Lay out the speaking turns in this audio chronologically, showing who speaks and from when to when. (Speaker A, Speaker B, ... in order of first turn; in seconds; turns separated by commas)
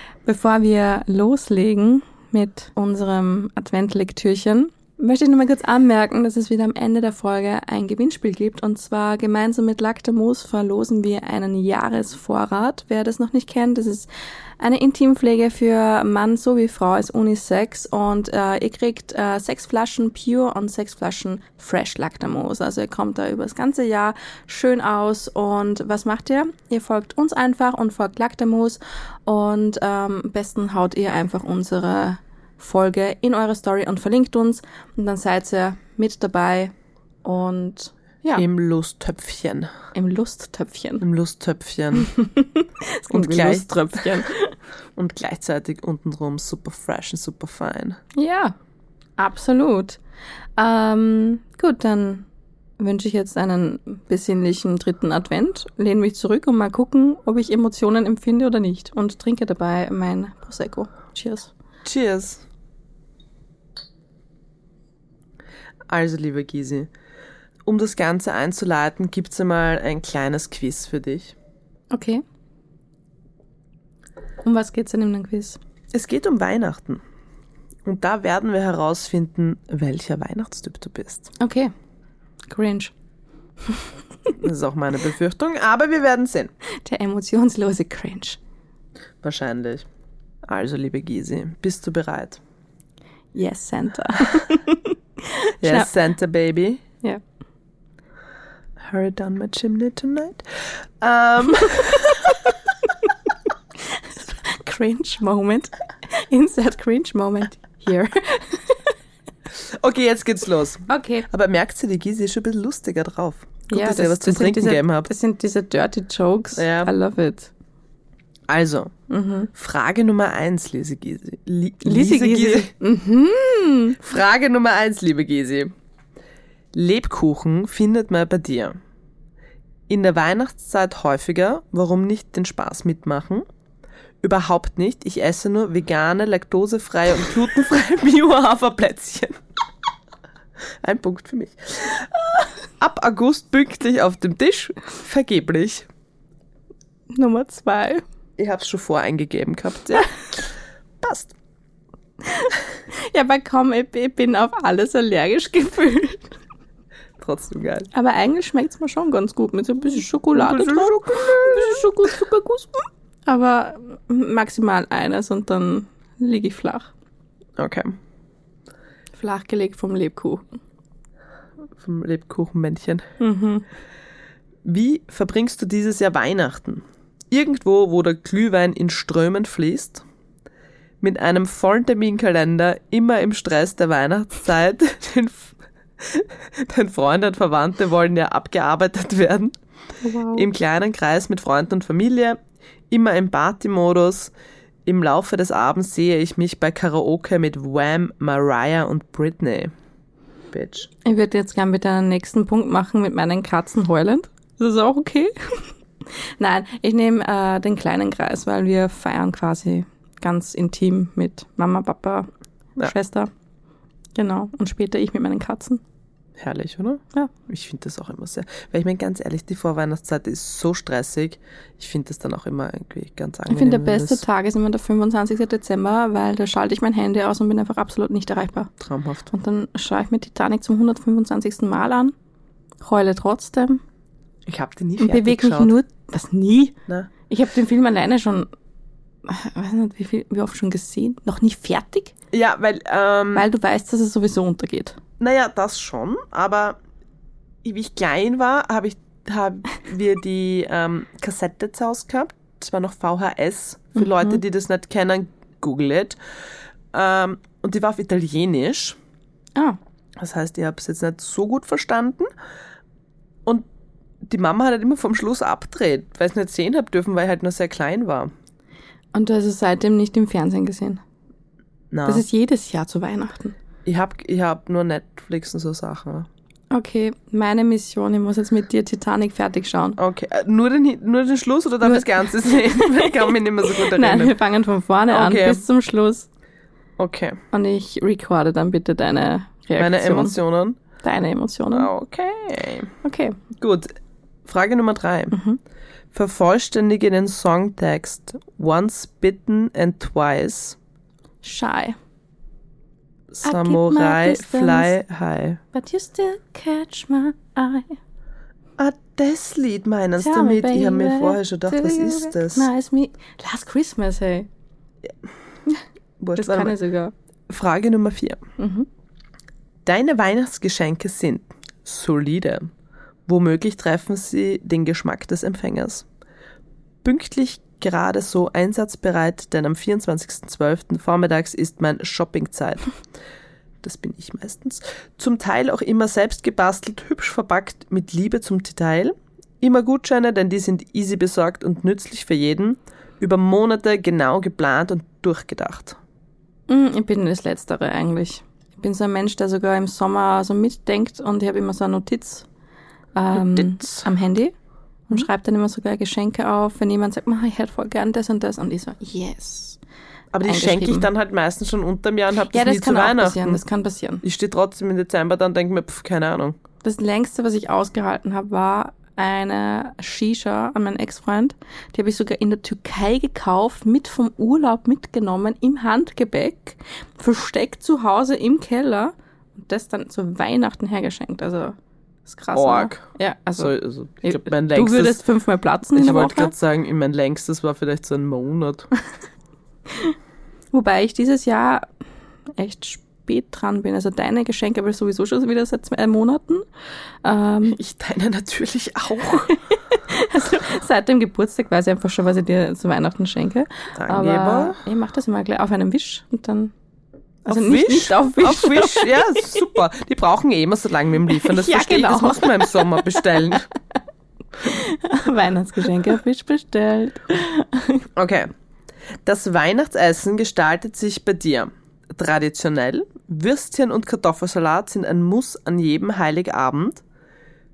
Speaker A: 0.2-14.1, Speaker A: 14.6-36.7, Speaker A: 37.2-38.4, Speaker B: 38.3-39.7, Speaker A: 39.9-41.0, Speaker B: 41.0-42.1, Speaker A: 42.0-44.5, Speaker B: 43.1-44.2, Speaker B: 45.0-48.0, Speaker A: 48.1-48.5, Speaker A: 49.2-50.0, Speaker A: 50.6-52.3, Speaker A: 52.8-61.5, Speaker B: 61.8-62.4, Speaker B: 65.9-66.9, Speaker B: 67.7-71.3, Speaker A: 71.9-72.2, Speaker A: 74.4-75.6, Speaker B: 75.9-77.0, Speaker B: 77.8-81.3, Speaker A: 81.4-81.7, Speaker A: 82.5-82.9, Speaker B: 84.3-86.5, Speaker A: 86.8-88.4, Speaker B: 89.2-89.8, Speaker B: 90.5-92.4, Speaker A: 93.3-95.9, Speaker B: 95.6-96.8, Speaker B: 98.8-102.5, Speaker A: 103.8-108.9, Speaker B: 109.6-115.1, Speaker A: 110.9-111.3, Speaker A: 113.7-117.5, Speaker B: 116.5-116.9, Speaker B: 118.5-118.9, Speaker A: 119.1-119.5, Speaker B: 119.5-122.7, Speaker A: 121.8-124.0, Speaker B: 124.0-125.7, Speaker B: 126.7-128.8, Speaker B: 129.9-133.4, Speaker B: 134.2-139.4, Speaker B: 140.8-145.9, Speaker A: 147.1-148.0, Speaker B: 148.4-151.3, Speaker A: 152.2-156.3, Speaker B: 157.2-157.9, Speaker A: 157.9-166.9, Speaker B: 160.3-161.9, Speaker B: 167.6-167.9, Speaker A: 169.1-170.4, Speaker B: 171.8-173.1, Speaker A: 173.2-173.6, Speaker B: 174.6-180.0, Speaker B: 181.0-189.5, Speaker A: 190.0-190.5, Speaker B: 190.3-192.4, Speaker B: 192.9-194.3, Speaker B: 194.8-199.7, Speaker B: 200.5-200.9, Speaker A: 201.0-213.3, Speaker A: 214.2-215.8, Speaker B: 216.4-224.2, Speaker A: 223.5-228.7, Speaker B: 228.8-229.3, Speaker A: 229.3-232.1, Speaker A: 232.8-233.8, Speaker B: 234.5-235.7, Speaker A: 235.0-236.7, Speaker A: 237.3-238.5, Speaker A: 239.2-242.1, Speaker B: 242.3-243.5, Speaker A: 243.3-245.0, Speaker B: 245.2-246.8, Speaker B: 247.6-256.2, Speaker A: 253.9-254.4, Speaker B: 256.9-259.0, Speaker B: 260.2-262.3, Speaker B: 264.2-268.3, Speaker A: 269.1-271.0, Speaker B: 271.9-272.2, Speaker A: 272.1-273.6, Speaker B: 273.8-276.3, Speaker A: 276.7-280.0, Speaker B: 280.0-284.4, Speaker A: 281.8-286.3, Speaker B: 285.1-285.6, Speaker B: 287.0-287.4, Speaker A: 287.5-290.4, Speaker B: 289.8-290.8, Speaker A: 291.0-291.9, Speaker B: 291.7-292.9, Speaker A: 293.0-293.4, Speaker B: 293.5-293.9, Speaker B: 294.4-295.3, Speaker A: 295.3-295.6, Speaker B: 296.1-300.8, Speaker A: 301.4-302.0, Speaker B: 303.3-305.6, Speaker A: 303.4-304.9, Speaker A: 305.7-308.0, Speaker B: 308.8-312.7, Speaker A: 310.2-314.5, Speaker B: 316.2-316.8, Speaker A: 316.4-317.1, Speaker B: 317.5-318.4, Speaker A: 318.6-318.9, Speaker B: 319.8-322.7, Speaker B: 323.3-326.1, Speaker B: 327.0-332.9, Speaker B: 333.8-346.0, Speaker A: 346.7-352.5, Speaker A: 353.1-354.5, Speaker B: 353.3-354.1, Speaker A: 355.1-359.8, Speaker B: 360.3-363.6, Speaker A: 360.4-361.1, Speaker A: 362.5-364.2, Speaker B: 364.2-366.6, Speaker A: 366.8-381.7, Speaker A: 382.2-386.5, Speaker B: 382.5-383.0, Speaker B: 383.6-385.2, Speaker B: 385.9-388.9, Speaker A: 390.7-391.9, Speaker A: 392.6-396.6, Speaker A: 397.2-397.8, Speaker B: 397.6-399.6, Speaker A: 399.4-406.7, Speaker B: 404.0-404.8, Speaker B: 407.4-413.7, Speaker A: 407.4-409.5, Speaker A: 411.3-413.4, Speaker A: 414.6-418.1, Speaker B: 418.1-418.5, Speaker B: 419.2-427.0